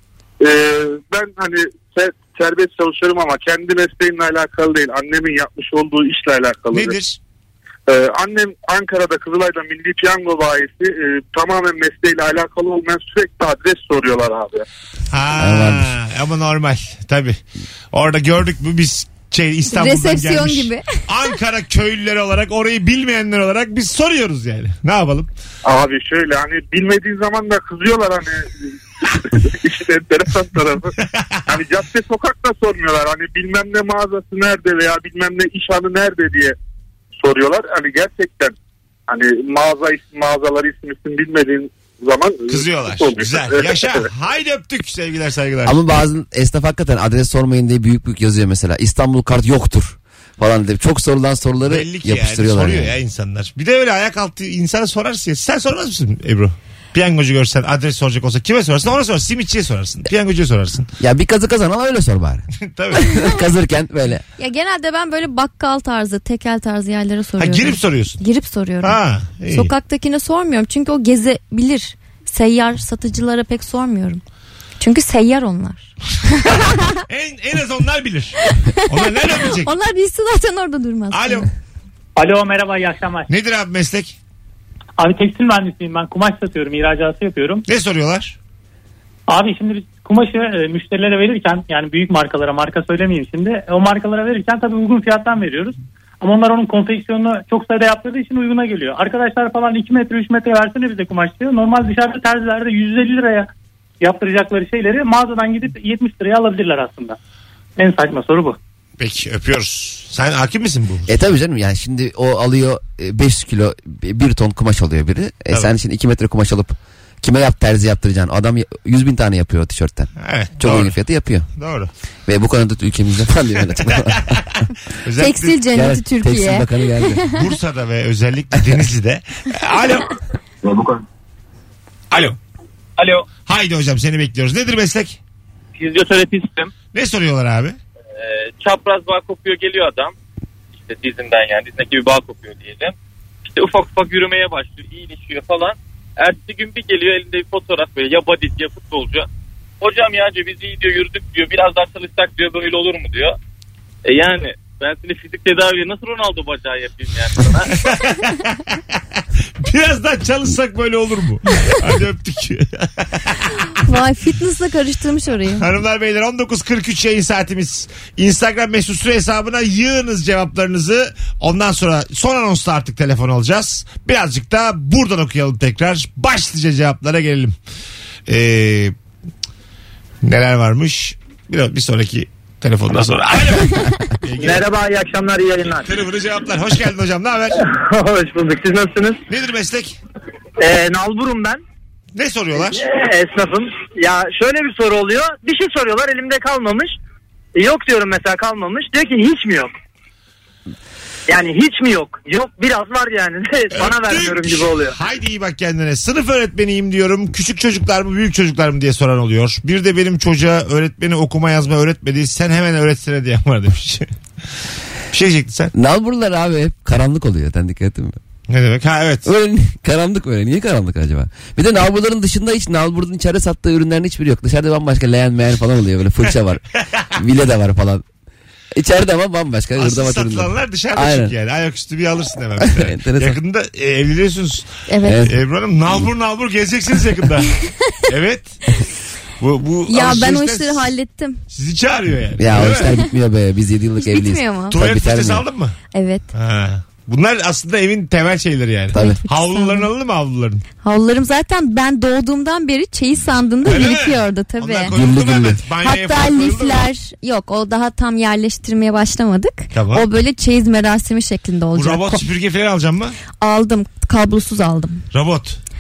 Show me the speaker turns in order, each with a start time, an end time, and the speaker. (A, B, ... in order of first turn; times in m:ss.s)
0:00.4-0:07.0 A
0:06.7-0:07.2 B
0:07.9-0:14.6 A
0:15.1-0:17.4 B
0:15.4-0:15.9 C
0:17.9-0:25.3 B
0:19.7-0:21.0 D
0:25.6-0:30.9 A
0:31.5-0:36.6 A
0:37.2-0:38.6 A
0:39.1-0:44.1 A
0:42.5-0:45.8 B
0:45.7-0:53.0 C
0:51.6-1:00.9 B
1:01.0-1:04.2 C
1:02.7-1:03.3 B
1:04.4-1:14.2 D
1:07.4-1:08.2 B
1:08.8-1:09.7 B
1:14.8-1:15.9 D
1:16.4-1:16.8 D
1:16.4-1:19.7 B
1:18.4-1:21.5 D
1:21.1-1:21.5 B
1:22.2-1:23.3 E
1:23.3-1:24.2 B
1:25.0-1:27.6 E
1:27.7-1:28.4 B
1:29.3-1:43.5 E
1:44.0-1:47.2 E
1:47.8-1:48.6 E
1:49.0-1:51.1 B
1:51.1-2:01.5 C
2:00.2-2:01.0 B
2:01.6-2:01.9 B
2:02.3-2:04.4 C
2:03.9-2:05.6 B
2:05.2-2:07.4 D
2:05.8-2:07.2 C
2:07.3-2:10.1 B
2:12.1-2:12.4 B
2:13.0-2:13.2 F
2:13.5-2:15.2 B
2:15.8-2:16.7 F
2:16.9-2:17.8 B
2:18.2-2:20.1 F
2:20.8-2:29.3 F
2:29.8-2:33.4 F
2:34.0-2:37.7 F
2:37.8-2:38.8 B
2:39.6-2:43.4 B
2:43.8-2:45.6 D
2:45.6-2:57.5 B
2:58.3-2:58.9 B
3:00.2-3:04.7 B
3:04.5-3:05.8 G
3:05.7-3:07.6 B
3:07.9-3:09.2 G
3:09.3-3:10.0 B
3:10.6-3:11.6 G
3:12.1-3:12.8 B
3:13.0-3:16.9 G
3:17.6-3:19.7 G
3:21.3-3:24.8 G
3:23.7-3:34.1 B
3:35.1-3:35.7 B
3:35.7-3:38.2 C
3:38.5-3:39.3 B
3:39.2-3:46.6 C
3:47.2-3:48.0 C
3:48.7-3:51.4 C
3:49.8-3:57.5 B
3:52.6-3:53.4 C
3:54.9-3:55.3 D
3:55.0-3:55.4 C
3:58.1-3:58.6 B
3:59.4-4:00.9 B
3:59.9-4:01.4 D
4:01.5-4:02.9 B
4:02.4-4:05.4 C
4:04.0-4:04.8 D
4:04.7-4:05.8 B
4:05.9-4:06.3 D
4:06.3-4:10.6 B
4:08.9-4:09.2 C
4:08.9-4:09.9 D
4:10.8-4:15.0 D
4:13.6-4:16.9 B
4:14.9-4:15.6 C
4:15.8-4:22.3 D
4:19.7-4:20.1 B
4:21.7-4:23.2 B
4:23.4-4:25.0 D
4:25.1-4:25.6 B